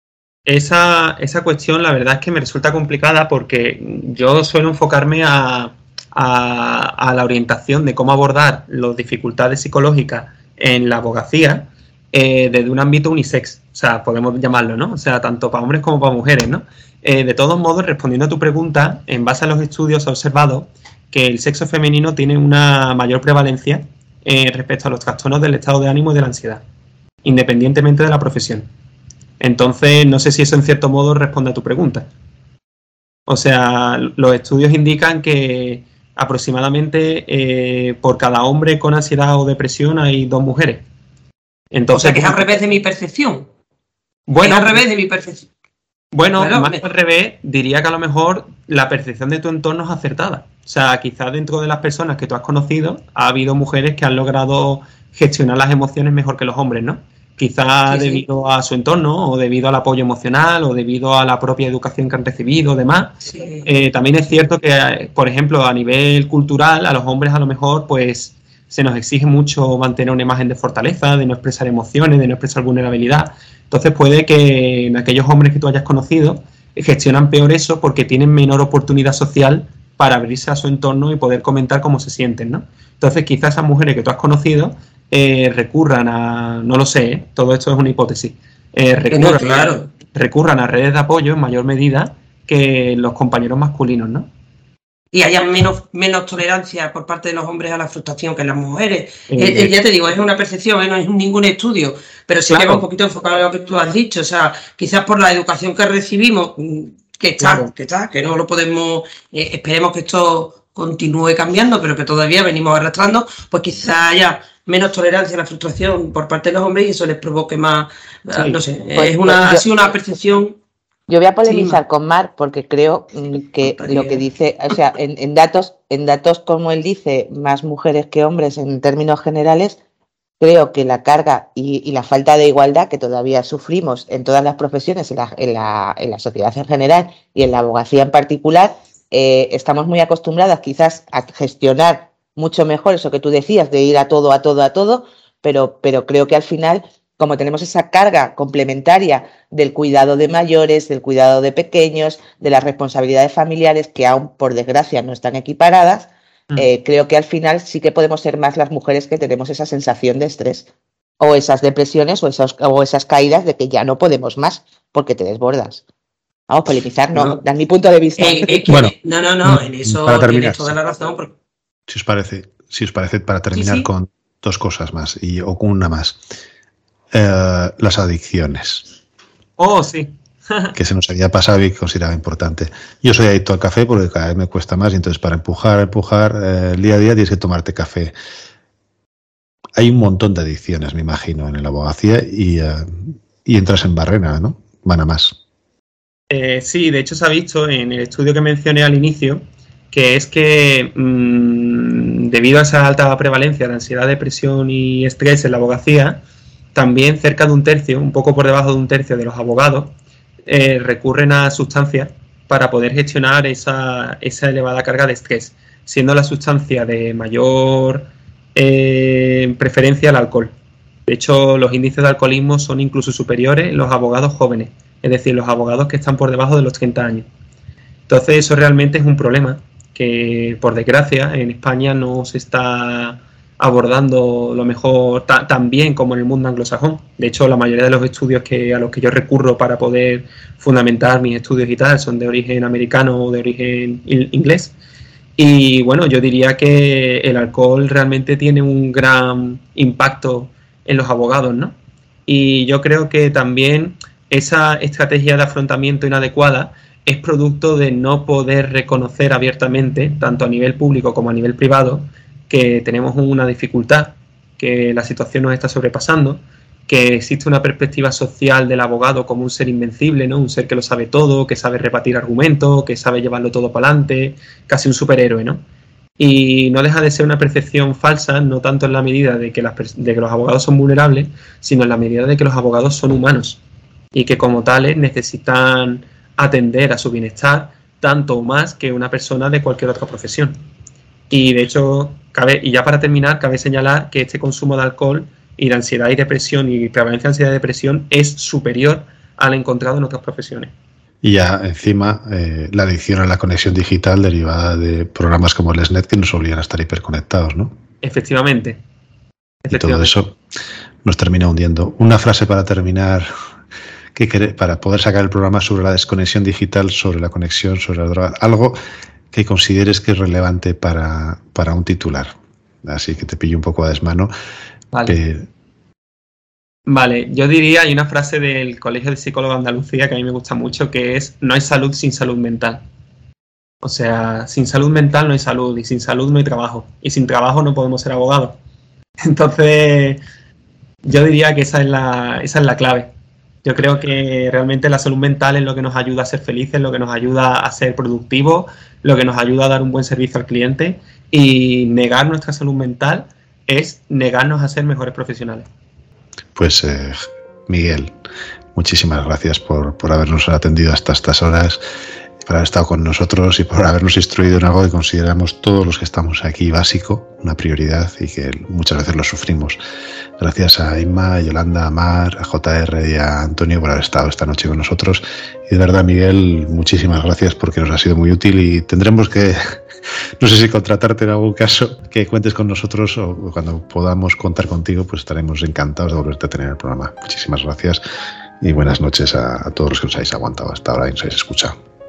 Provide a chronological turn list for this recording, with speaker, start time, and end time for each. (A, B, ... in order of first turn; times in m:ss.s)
0:00.5-0:26.6 A
0:27.2-0:28.7 A
0:29.4-0:32.1 A
0:33.3-0:40.8 A
0:41.7-0:42.6 A
0:41.9-0:43.5 B
0:44.3-0:44.9 A
0:44.4-0:45.5 B
0:46.1-1:34.3 A
0:46.4-0:46.8 B
0:57.9-0:58.2 B
1:03.2-1:03.7 B
1:29.1-1:29.9 B
1:35.1-2:00.6 B
1:39.3-1:39.8 A
1:42.5-1:42.9 A
1:47.4-1:47.7 A
1:58.4-1:58.6 A
1:59.0-1:59.7 C
2:01.1-2:09.8 C
2:01.5-2:01.8 B
2:03.6-2:04.2 B
2:10.4-2:40.7 C
2:41.2-2:45.8 C
2:46.5-2:48.6 C
2:48.2-2:51.4 B
2:48.7-2:50.8 D
2:51.9-2:56.2 D
2:53.5-2:53.9 B
2:57.1-2:58.9 D
2:59.6-3:00.8 A
3:00.8-3:08.2 D
3:09.8-3:15.4 D
3:16.3-3:26.2 A
3:26.8-3:30.0 A
3:30.5-3:40.5 A
3:41.1-3:47.3 A
3:48.1-4:04.7 A
4:05.4-4:35.6 A
4:36.2-4:43.6 A
4:44.1-4:50.6 A
4:51.3-5:00.7 A
5:01.2-5:07.8 D
5:08.0-5:08.8 A
5:09.6-5:10.1 A
5:09.7-5:10.4 D
5:11.0-5:13.3 D
5:14.2-5:18.8 D
5:19.3-5:24.3 D
5:24.9-5:25.2 A
5:25.1-5:25.5 D
5:26.9-5:32.8 A
5:33.8-5:38.6 A
5:39.2-5:40.2 A
5:41.0-5:43.1 A
5:43.6-5:55.7 A
5:56.6-5:58.1 D
5:58.8-6:01.8 D
6:02.5-6:09.8 D
6:10.4-6:19.8 D
6:20.4-6:28.0 D
6:28.6-6:31.8 D